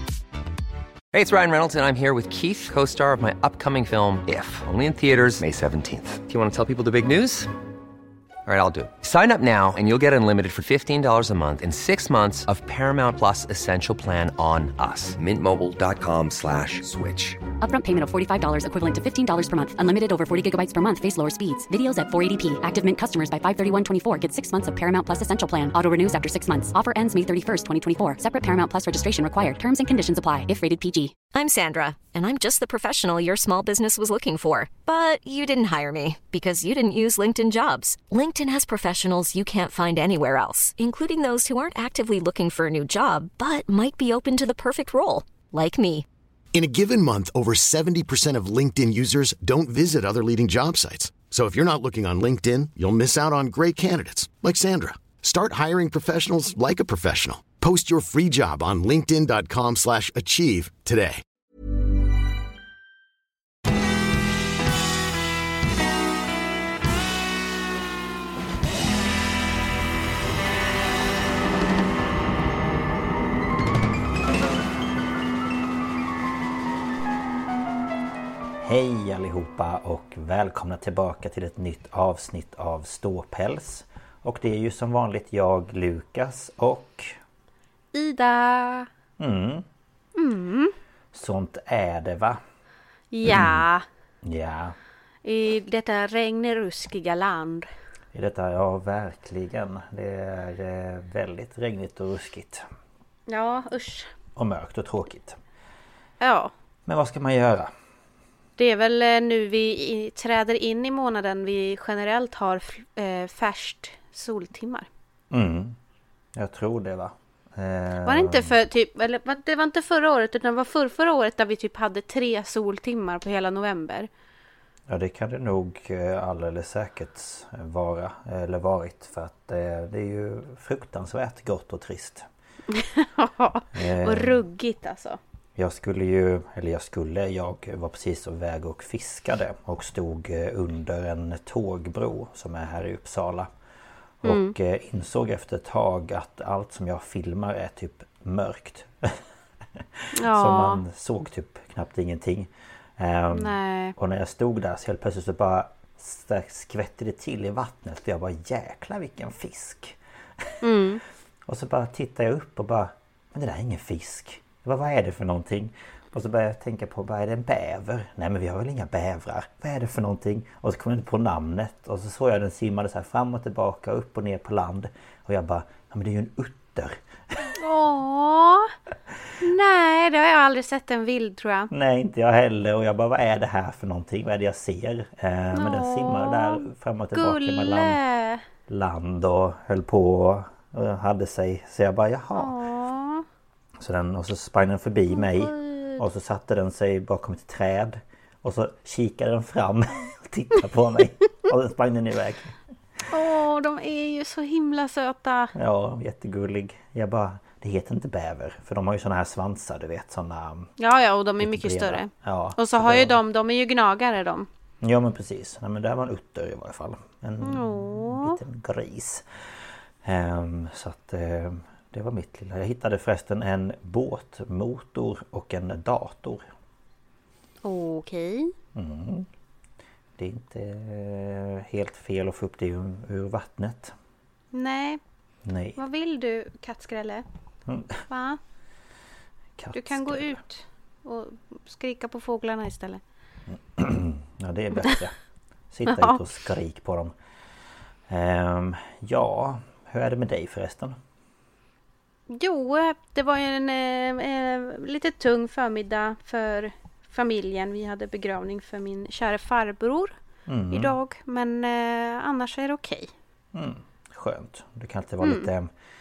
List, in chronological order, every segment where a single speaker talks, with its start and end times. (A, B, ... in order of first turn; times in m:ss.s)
0:01.1-0:07.5 A
0:08.4-0:17.4 A
0:17.6-0:31.2 B
0:31.3-0:46.0 C
0:46.5-1:01.2 D
1:18.6-1:27.2 E
1:27.9-1:28.9 F
1:29.2-1:29.6 E
1:30.2-1:30.7 F
1:31.1-1:32.4 E
1:33.1-1:33.8 F
1:33.2-1:33.6 E
1:34.2-1:34.8 E
1:35.2-1:37.7 F
1:38.1-1:42.6 E
1:43.3-1:44.1 F
1:44.4-1:45.4 E
1:46.2-1:46.5 F
1:46.8-1:47.7 E
1:48.6-1:54.9 F
1:55.3-1:55.8 E
1:56.3-1:58.5 E
1:58.0-2:04.1 F
2:04.9-2:12.3 E
2:12.7-2:15.2 F
2:13.7-2:14.4 E
2:15.6-2:23.5 E
2:24.2-2:29.2 E
2:24.2-2:24.5 F
2:29.8-2:40.6 E
2:30.1-2:30.8 F
2:33.3-2:33.9 F
2:40.6-2:41.0 F
2:41.4-2:57.6 E
2:57.5-2:58.7 F
2:59.4-3:01.7 F
3:01.7-3:08.0 E
3:05.5-3:08.4 F
3:08.7-3:12.5 E
3:12.3-3:13.2 F
3:13.8-3:23.1 E
3:15.1-3:16.0 F
3:23.1-3:25.5 F
3:25.5-3:30.7 E
3:30.8-3:34.5 F
3:31.4-3:33.2 E
3:34.8-3:46.5 E
3:37.4-3:38.4 F
3:47.6-3:48.5 F
3:48.7-3:49.3 E
3:50.2-3:53.9 E
3:54.5-3:55.0 F
3:55.4-3:55.8 E
3:55.8-3:57.2 F
3:57.7-3:58.0 E
3:58.1-3:58.4 F
3:59.6-4:00.4 E
3:59.7-4:03.0 F
4:03.5-4:05.2 E
4:05.7-4:07.1 E
4:05.8-4:06.2 F
4:08.1-4:11.0 E
4:12.3-4:20.1 F
4:20.5-4:20.9 E
4:20.7-4:23.1 F
4:23.5-4:25.7 E
4:25.2-4:25.5 F